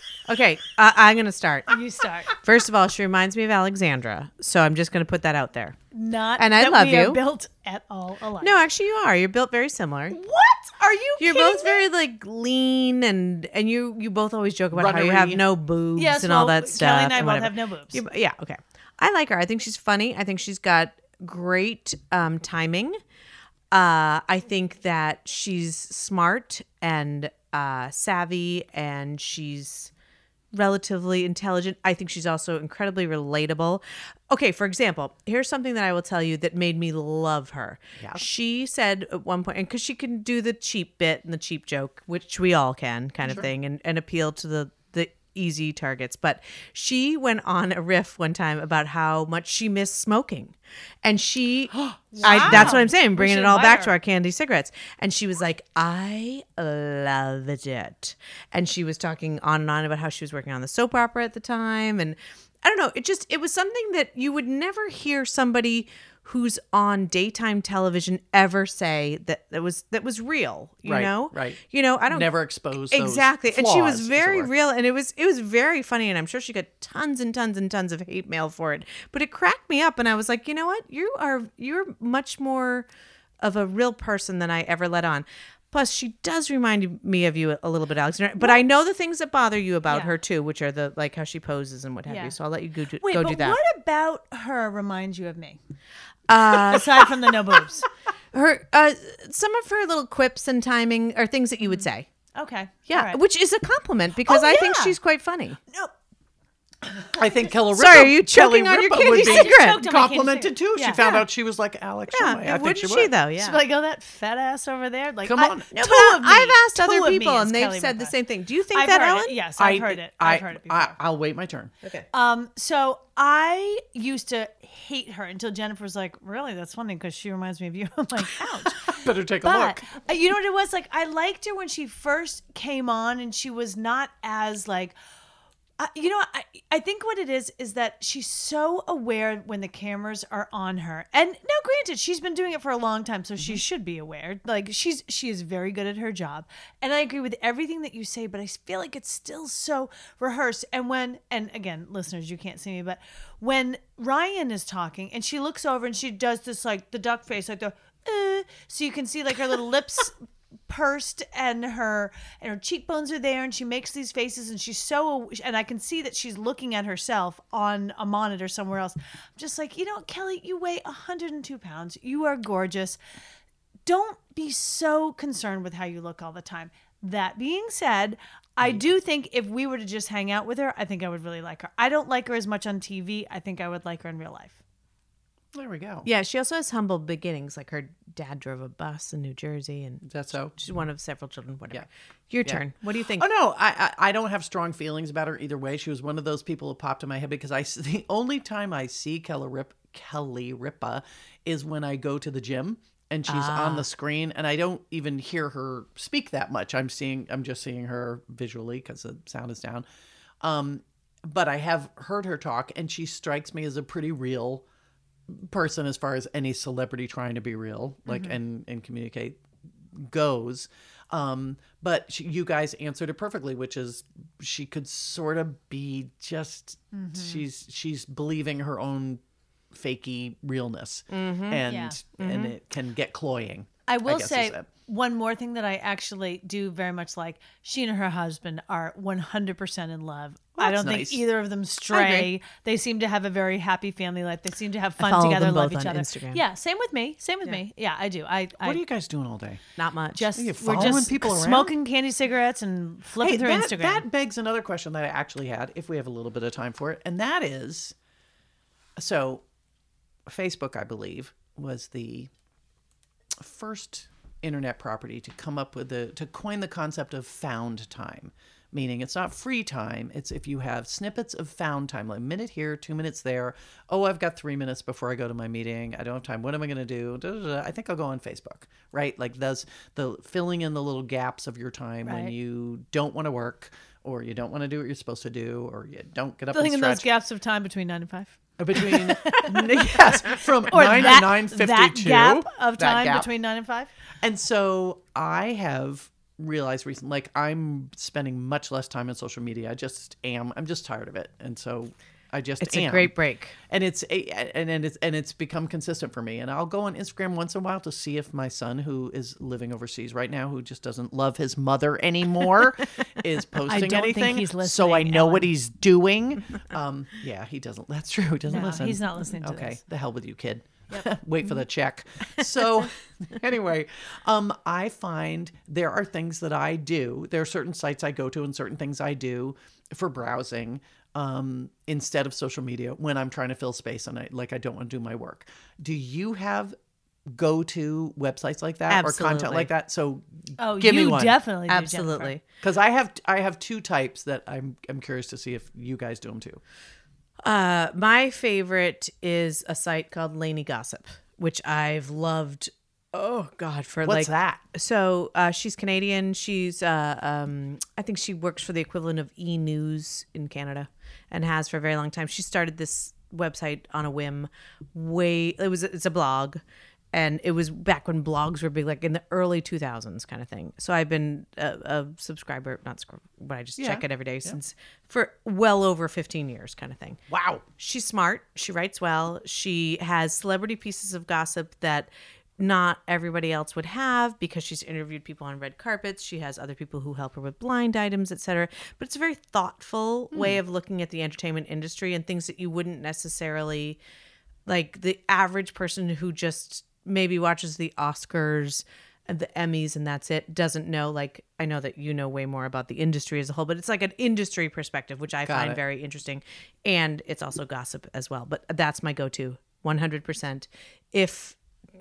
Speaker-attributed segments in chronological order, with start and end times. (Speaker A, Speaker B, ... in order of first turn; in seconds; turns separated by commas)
Speaker A: 0.3-1.8, Speaker B: 1.7-2.3, Speaker A: 2.3-5.8, Speaker B: 5.9-8.6, Speaker A: 6.4-7.2, Speaker A: 8.4-10.2, Speaker B: 10.1-11.9, Speaker A: 11.2-23.0, Speaker C: 14.7-15.4, Speaker B: 16.0-18.0, Speaker A: 23.7-29.9, Speaker A: 30.5-72.3, Speaker C: 38.0-38.2, Speaker C: 51.8-52.8, Speaker B: 52.2-53.9, Speaker C: 70.8-74.5, Speaker A: 72.9-82.9, Speaker A: 83.4-93.6, Speaker B: 89.9-90.2, Speaker B: 92.1-92.4, Speaker B: 93.0-95.6, Speaker A: 96.3-97.2, Speaker B: 96.5-97.9, Speaker A: 98.3-102.1, Speaker B: 102.3-103.2, Speaker A: 102.9-105.6, Speaker B: 104.3-105.0, Speaker C: 107.0-113.1, Speaker A: 107.7-109.8, Speaker B: 109.0-111.2, Speaker A: 112.1-113.6, Speaker B: 113.4-118.1, Speaker C: 115.2-115.7, Speaker A: 115.7-119.4, Speaker B: 118.7-121.0, Speaker C: 119.6-121.7, Speaker B: 122.1-134.9, Speaker C: 128.8-129.9, Speaker B: 135.8-160.2, Speaker B: 160.7-173.0, Speaker B: 173.9-184.6, Speaker C: 185.5-186.1, Speaker A: 186.1-193.3, Speaker C: 190.0-190.6, Speaker C: 192.4-209.9, Speaker A: 203.3-203.9, Speaker C: 210.4-214.7, Speaker C: 215.3-219.4, Speaker B: 218.1-218.3, Speaker C: 219.9-229.2, Speaker B: 226.9-227.4, Speaker C: 229.7-234.7, Speaker A: 231.1-231.6, Speaker B: 231.7-232.0, Speaker A: 232.2-232.6, Speaker B: 233.9-248.8, Speaker C: 240.6-241.2, Speaker A: 241.9-242.3, Speaker A: 245.0-246.4, Speaker C: 248.6-249.6, Speaker A: 249.8-250.3, Speaker B: 250.2-254.1, Speaker C: 250.3-251.7, Speaker C: 253.2-257.9, Speaker C: 259.0-259.4, Speaker C: 260.3-262.3, Speaker C: 263.4-287.1, Speaker B: 282.1-282.3, Speaker B: 286.5-293.9, Speaker C: 288.6-293.3, Speaker C: 294.2-303.1, Speaker A: 302.6-303.6, Speaker C: 303.7-336.8, Speaker B: 313.7-315.5, Speaker B: 318.5-319.8, Speaker C: 337.3-341.4, Speaker A: 338.9-339.7, Speaker B: 340.6-342.3, Speaker A: 341.7-342.4, Speaker C: 342.6-346.6, Speaker A: 347.4-366.6, Speaker C: 354.0-354.6, Speaker A: 367.1-377.2, Speaker C: 373.8-374.6, Speaker C: 377.3-377.6, Speaker A: 377.8-394.0, Speaker C: 390.3-390.6, Speaker A: 394.7-411.6, Speaker C: 405.4-405.8